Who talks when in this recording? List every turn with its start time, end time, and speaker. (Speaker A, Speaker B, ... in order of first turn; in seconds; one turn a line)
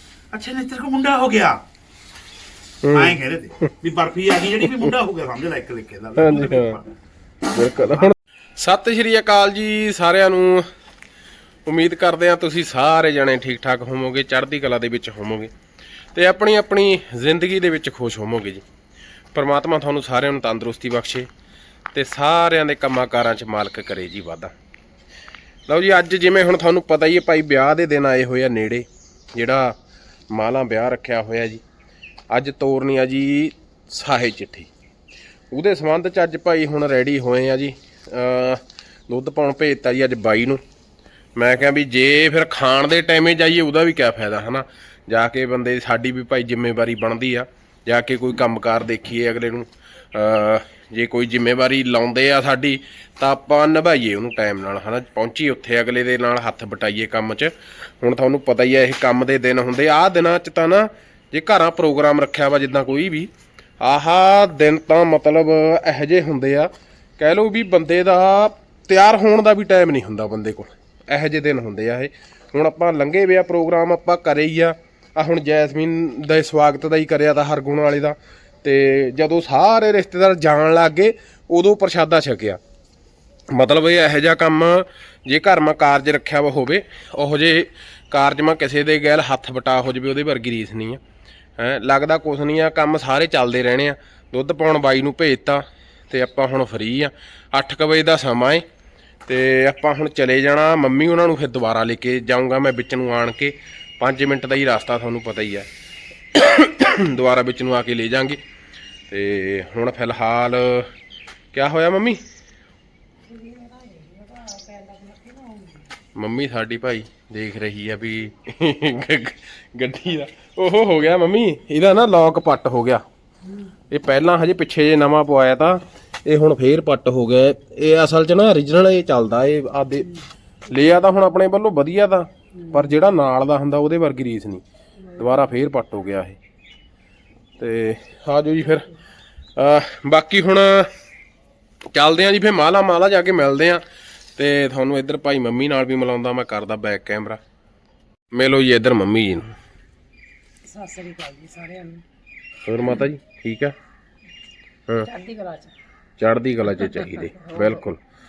Speaker A: 0.3-1.6
Speaker B: 2.8-3.7
Speaker A: 2.9-6.9
Speaker B: 6.2-6.8
Speaker B: 7.5-10.7
Speaker A: 7.7-8.1
Speaker B: 11.7-15.5
Speaker B: 16.1-18.6
Speaker B: 19.3-21.3
Speaker B: 21.9-24.5
Speaker B: 25.7-29.8
Speaker B: 30.3-31.6
Speaker B: 32.3-34.7
Speaker B: 35.5-40.6
Speaker B: 41.4-82.6
Speaker B: 83.5-91.0
Speaker B: 91.6-98.6
Speaker B: 99.2-105.7
Speaker B: 106.3-108.4
Speaker B: 109.1-110.9
Speaker B: 111.5-112.2
Speaker C: 113.3-115.6
Speaker B: 116.2-123.0
Speaker B: 123.9-130.1
Speaker B: 130.7-134.6
Speaker C: 132.6-132.9
Speaker B: 135.2-136.4
Speaker B: 137.6-138.9
Speaker B: 139.6-140.9
Speaker B: 141.9-143.8
Speaker B: 144.3-147.4
Speaker B: 148.3-149.5
Speaker C: 150.7-152.0
Speaker B: 152.6-153.8
Speaker C: 155.1-155.7
Speaker B: 156.2-158.0
Speaker C: 156.7-157.8